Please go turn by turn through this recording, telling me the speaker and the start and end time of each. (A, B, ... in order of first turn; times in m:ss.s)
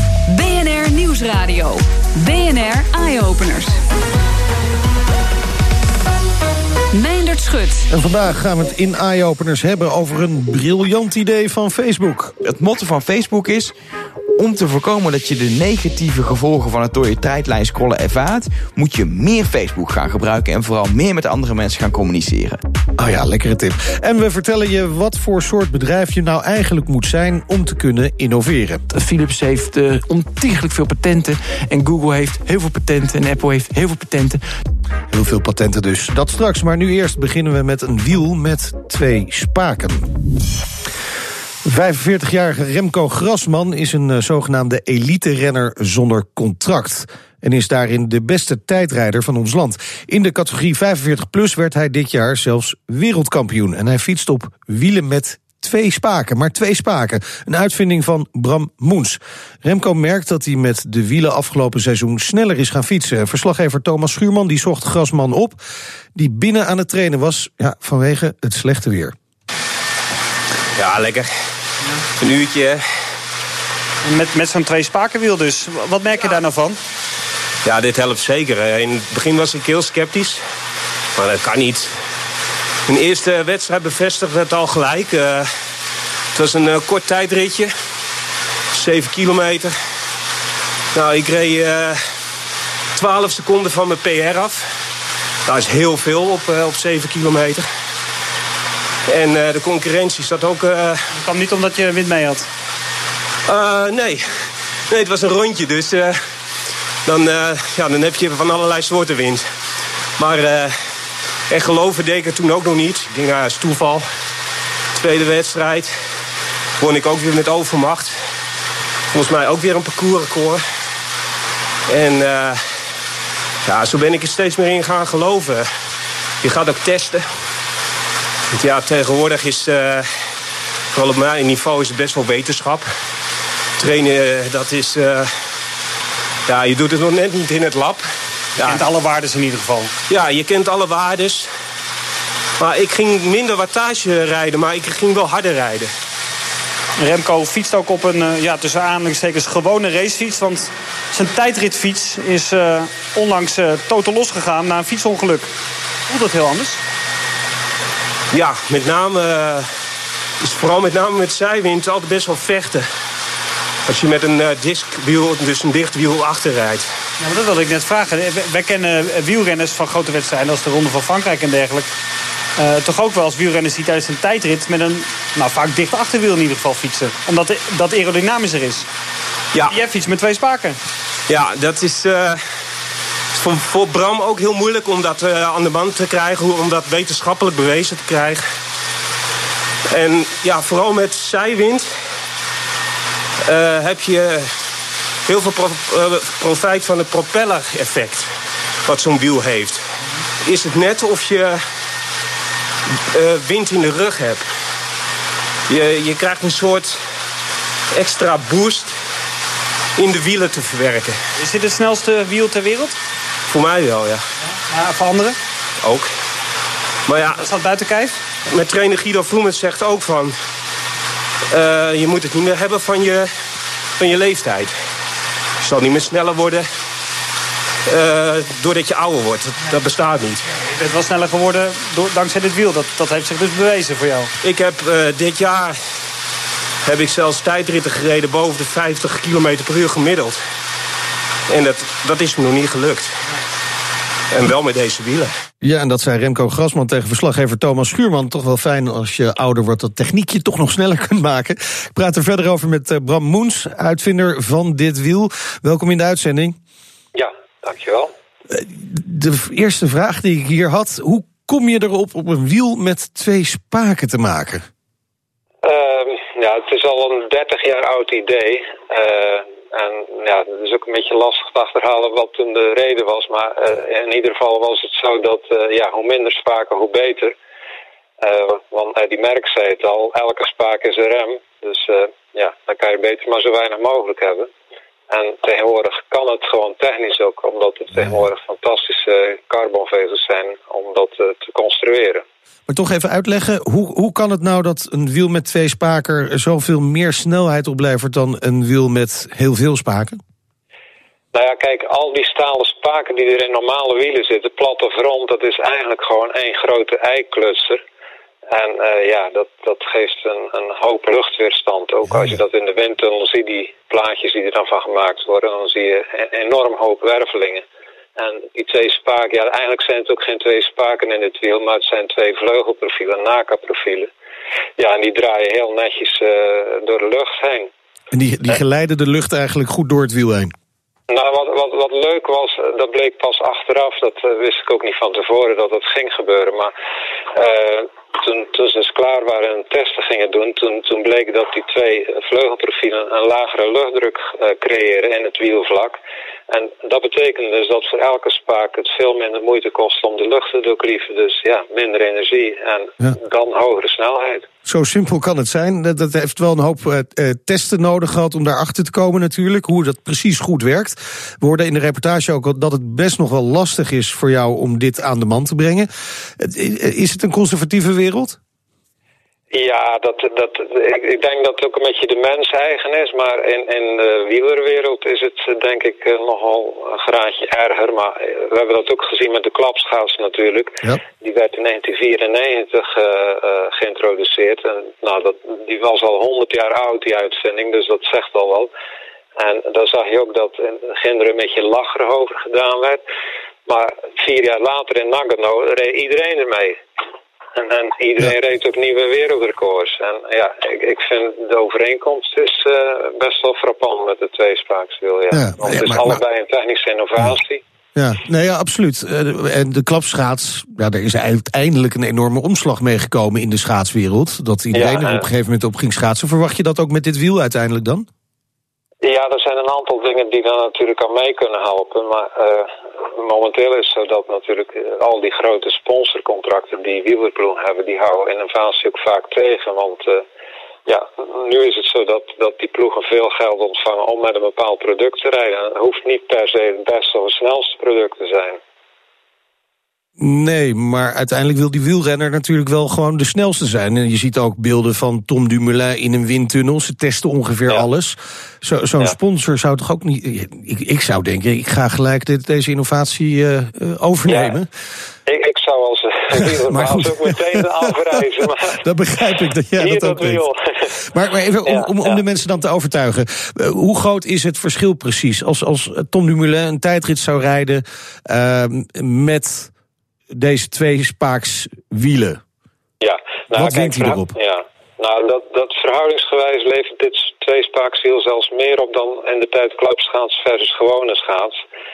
0:00.3-0:03.7 A
0:06.9-0:07.9 A
0:07.9-0:12.3 B
0:12.4-0:13.7 C
0:14.4-0:22.6 C
0:23.0-0:28.8 B
0:28.9-0:34.4 D
0:35.1-0:40.1 B
0:41.6-1:05.6 B
1:06.1-1:09.1 B
1:10.8-1:11.3 E
1:12.2-1:12.8 E
1:14.0-1:16.8 F
1:17.6-1:20.4 E
1:21.2-1:21.9 E
1:22.9-1:25.5 E
1:26.3-1:27.7 E
1:28.7-1:29.7 E
1:30.9-1:32.0 E
1:32.9-1:34.7 E
1:35.4-1:37.7 E
1:39.1-1:41.0 E
1:41.2-1:42.5 F
1:43.5-1:44.4 E
1:44.9-1:46.2 E
1:47.0-1:49.4 E
1:50.2-1:50.8 E
1:51.5-1:54.0 E
1:55.0-1:55.9 E
1:56.8-1:58.2 E
1:59.1-2:00.6 E
2:01.9-2:02.6 E
2:03.6-2:05.7 E
2:06.4-2:07.2 E
2:08.5-2:10.1 E
2:10.9-2:12.9 E
2:13.8-2:15.5 E
2:16.5-2:18.0 E
2:18.6-2:18.8 E
2:18.6-2:19.9 F
2:20.1-2:21.5 E
2:22.6-2:25.9 E
2:27.0-2:35.5 F
2:36.1-2:36.8 F
2:38.3-2:39.7 E
2:40.4-2:42.9 E
2:43.8-2:46.9 E
2:47.2-2:51.9 F
2:52.6-2:58.9 F
2:59.7-3:00.8 F
3:01.3-3:02.4 E
3:03.4-3:08.4 E
3:09.9-3:11.9 E
3:13.4-3:14.5 E
3:15.3-3:18.3 E
3:18.8-3:19.8 E
3:20.4-3:21.6 E
3:23.1-3:24.4 E
3:25.7-3:27.0 E
3:27.9-3:28.9 E
3:30.0-3:31.2 E
3:31.4-3:33.0 F
3:33.5-3:34.2 E
3:34.7-3:35.4 F
3:35.8-3:36.1 E
3:37.1-3:37.4 E
3:37.2-3:38.2 F
3:38.5-3:40.3 E
3:41.5-3:43.3 E
3:44.0-3:44.8 E
3:45.6-3:46.6 E
3:47.9-3:50.4 E
3:50.6-3:54.3 F
3:54.4-3:55.8 E
3:56.8-4:00.4 E
4:01.5-4:03.2 E
4:04.3-4:05.3 E
4:05.6-4:16.6 B
4:17.1-4:18.1 G
4:18.5-4:24.6 B
4:25.6-4:37.3 G
4:38.2-4:44.5 G
4:45.1-4:52.2 G
4:52.7-5:00.2 B
5:01.3-5:07.8 G
5:08.5-5:17.6 G
5:18.2-5:24.1 G
5:24.8-5:27.7 G
5:28.1-5:30.5 B
5:31.1-5:36.7 G
5:37.4-5:46.0 G
5:46.5-5:54.5 G
5:54.6-6:08.4 B
6:09.5-6:28.7 G
6:29.4-6:33.0 G
6:33.7-6:36.8 G
6:37.6-6:47.6 G
6:45.3-6:46.2 B
6:48.0-6:58.1 B
6:54.7-6:55.3 G
6:59.0-7:10.2 G
7:10.9-7:18.6 G
7:20.2-7:34.7 B
7:34.3-7:34.6 G
7:35.2-7:38.8 G
7:36.7-7:37.2 B
7:38.7-7:40.4 B
7:39.8-7:41.0 G
7:41.1-7:49.7 B
7:41.6-7:42.2 G
7:50.3-7:52.4 B
7:53.0-8:01.6 G
7:53.5-7:54.3 B